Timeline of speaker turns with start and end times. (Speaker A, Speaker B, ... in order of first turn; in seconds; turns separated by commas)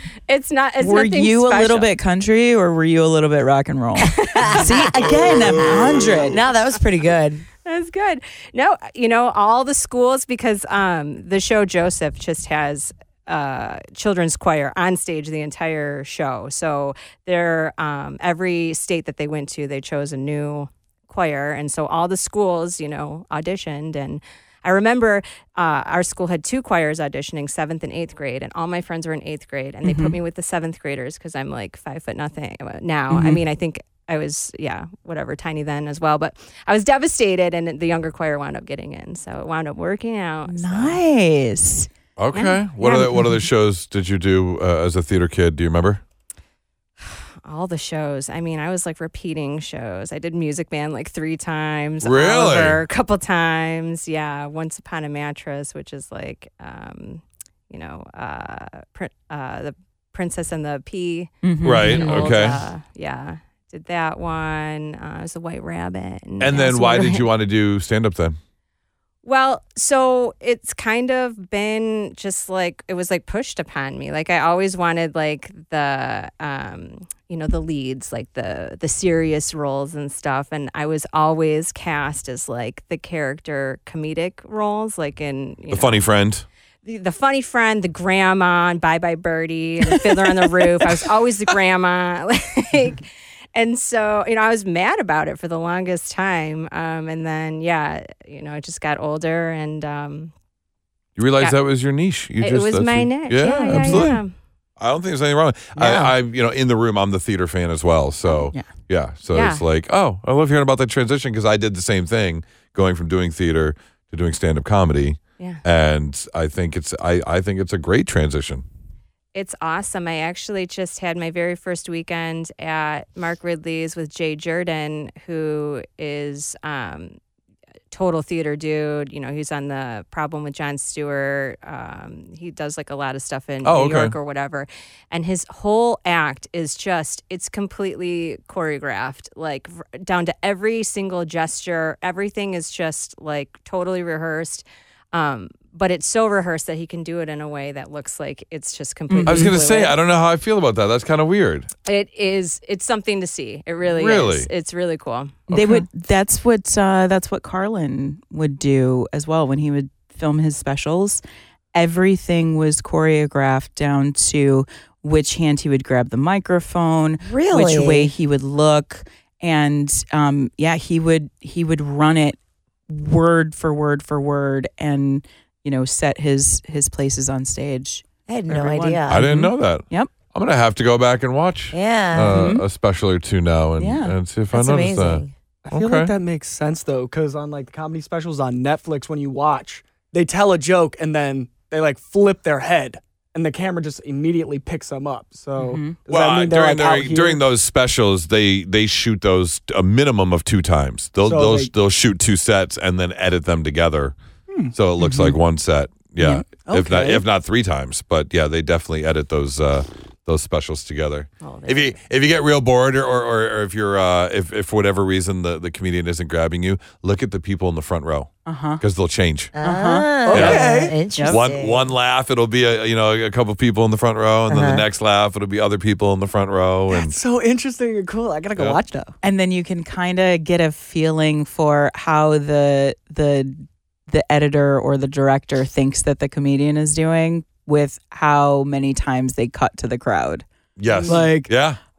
Speaker A: 0.3-1.9, Speaker B: 0.8-6.4, Speaker C: 4.2-7.4, Speaker A: 4.3-4.7, Speaker A: 7.6-41.0, Speaker B: 29.8-30.1, Speaker B: 33.1-33.4, Speaker B: 40.5-41.9, Speaker D: 42.2-46.0, Speaker A: 42.3-43.1, Speaker A: 47.0-67.2, Speaker D: 52.0-52.8, Speaker B: 61.4-62.3, Speaker D: 61.6-62.6, Speaker D: 66.4-68.4, Speaker A: 69.2-86.0, Speaker D: 85.7-86.5, Speaker A: 86.8-100.3, Speaker D: 101.2-104.2, Speaker A: 102.4-104.3, Speaker B: 103.7-104.2, Speaker D: 104.8-118.6, Speaker C: 105.8-106.1, Speaker B: 108.3-108.7, Speaker A: 109.3-109.6, Speaker A: 119.3-127.2, Speaker A: 127.9-149.9, Speaker D: 133.6-134.1, Speaker B: 149.1-149.5, Speaker D: 149.2-151.7, Speaker A: 151.8-155.5, Speaker D: 153.8-154.5, Speaker B: 155.5-161.2, Speaker D: 155.5-155.8, Speaker B: 161.7-180.1, Speaker C: 167.2-168.1, Speaker C: 178.3-179.3, Speaker D: 179.1-186.1, Speaker C: 181.7-182.5, Speaker B: 182.3-182.6, Speaker B: 183.8-184.1, Speaker C: 184.5-185.3, Speaker E: 185.6-197.4, Speaker B: 195.6-195.9, Speaker D: 196.1-204.1, Speaker E: 201.2-201.7, Speaker D: 204.7-219.5, Speaker B: 205.0-205.3, Speaker B: 206.2-207.2, Speaker A: 211.4-211.9, Speaker B: 218.4-218.8, Speaker C: 219.5-221.8, Speaker B: 219.6-221.4, Speaker E: 220.2-220.9, Speaker D: 220.3-220.7, Speaker D: 221.2-227.2, Speaker C: 224.5-224.8, Speaker E: 226.9-229.1, Speaker B: 229.2-240.4, Speaker D: 240.8-241.8, Speaker E: 241.0-241.3, Speaker B: 241.0-241.5